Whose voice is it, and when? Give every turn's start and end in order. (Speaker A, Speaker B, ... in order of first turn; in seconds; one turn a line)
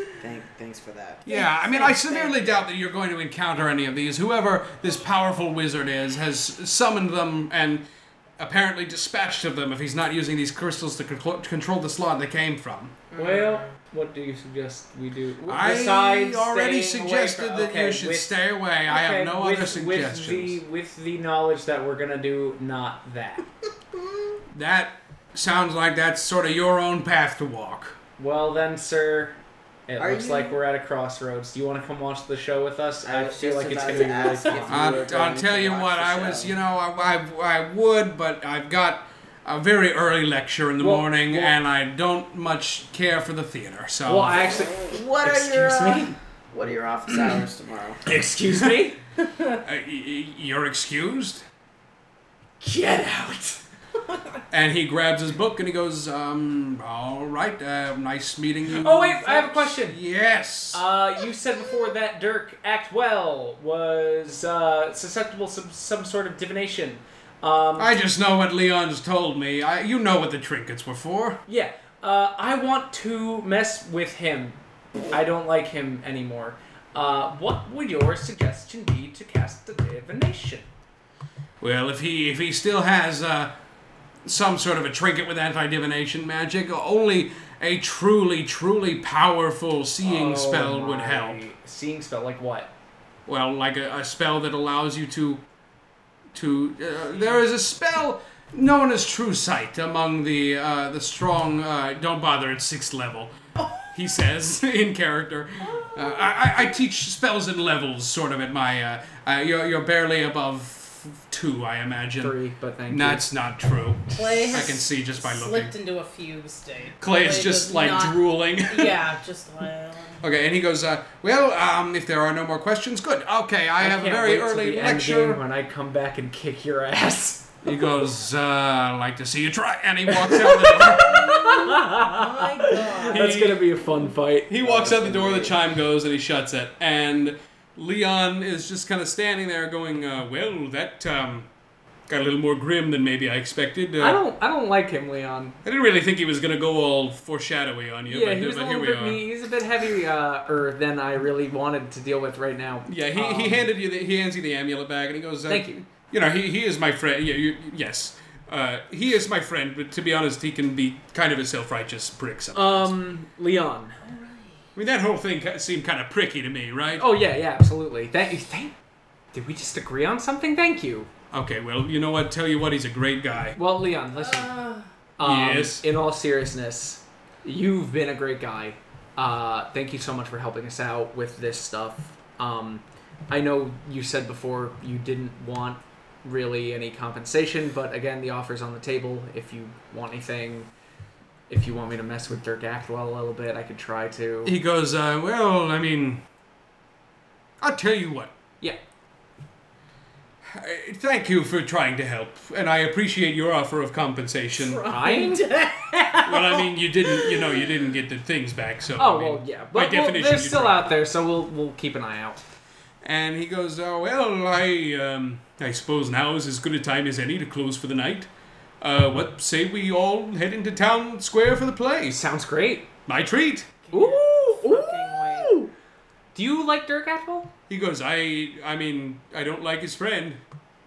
Speaker A: 0.2-2.1
Speaker B: 1.3-7.8
Speaker C: 1.3-2.3
Speaker B: 8.4-13.0
Speaker C: 13.1-13.7
Speaker D: 13.2-18.4
Speaker B: 15.4-20.6
Speaker D: 18.9-23.4
Speaker B: 24.5-28.0
Speaker D: 28.2-35.1
Speaker A: 30.0-30.6
Speaker A: 33.0-36.5
Speaker C: 34.2-34.6
Speaker B: 34.7-44.4
Speaker D: 40.8-41.5
Speaker D: 44.1-46.2
Speaker A: 44.6-48.0
Speaker D: 48.1-49.0
Speaker B: 49.6-51.4
Speaker D: 52.6-53.6
Speaker B: 54.5-60.9
Speaker D: 58.7-60.0
Speaker D: 60.7-67.9
Speaker B: 67.8-71.4
Speaker D: 71.5-74.6
Speaker D: 75.1-80.7
Speaker B: 81.6-83.6
Speaker B: 84.3-91.4
Speaker D: 90.0-92.7
Speaker B: 93.3-95.4
Speaker B: 96.3-103.3
Speaker C: 103.6-103.8
Speaker B: 103.9-112.4
Speaker C: 105.6-106.7
Speaker D: 112.2-113.2
Speaker B: 112.9-115.7
Speaker C: 114.1-120.2
Speaker B: 117.0-119.0
Speaker B: 120.2-125.4
Speaker D: 123.8-127.7
Speaker B: 127.6-131.4
Speaker D: 130.1-135.5
Speaker C: 131.0-133.4
Speaker B: 133.1-133.7
Speaker B: 134.5-141.5
Speaker B: 142.1-144.2
Speaker D: 144.0-145.6
Speaker B: 145.6-149.2
Speaker D: 148.1-153.7
Speaker B: 152.9-163.0
Speaker D: 155.5-155.8
Speaker D: 162.5-164.0
Speaker B: 164.8-167.1
Speaker D: 167.0-168.8
Speaker D: 169.3-171.1
Speaker B: 171.3-173.6
Speaker D: 173.6-174.6
Speaker C: 174.1-174.9
Speaker D: 175.2-190.7
Speaker B: 175.2-175.8
Speaker D: 191.5-194.6
Speaker B: 194.4-196.2
Speaker B: 197.6-198.3
Speaker B: 200.5-204.8
Speaker C: 204.6-206.2
Speaker D: 204.8-206.3
Speaker B: 206.2-210.9
Speaker D: 209.0-212.4
Speaker B: 213.0-218.3
Speaker B: 218.8-222.2
Speaker D: 222.1-222.9
Speaker B: 223.1-223.7
Speaker C: 223.8-225.6
Speaker D: 223.9-225.7
Speaker D: 226.3-227.5
Speaker B: 227.7-230.4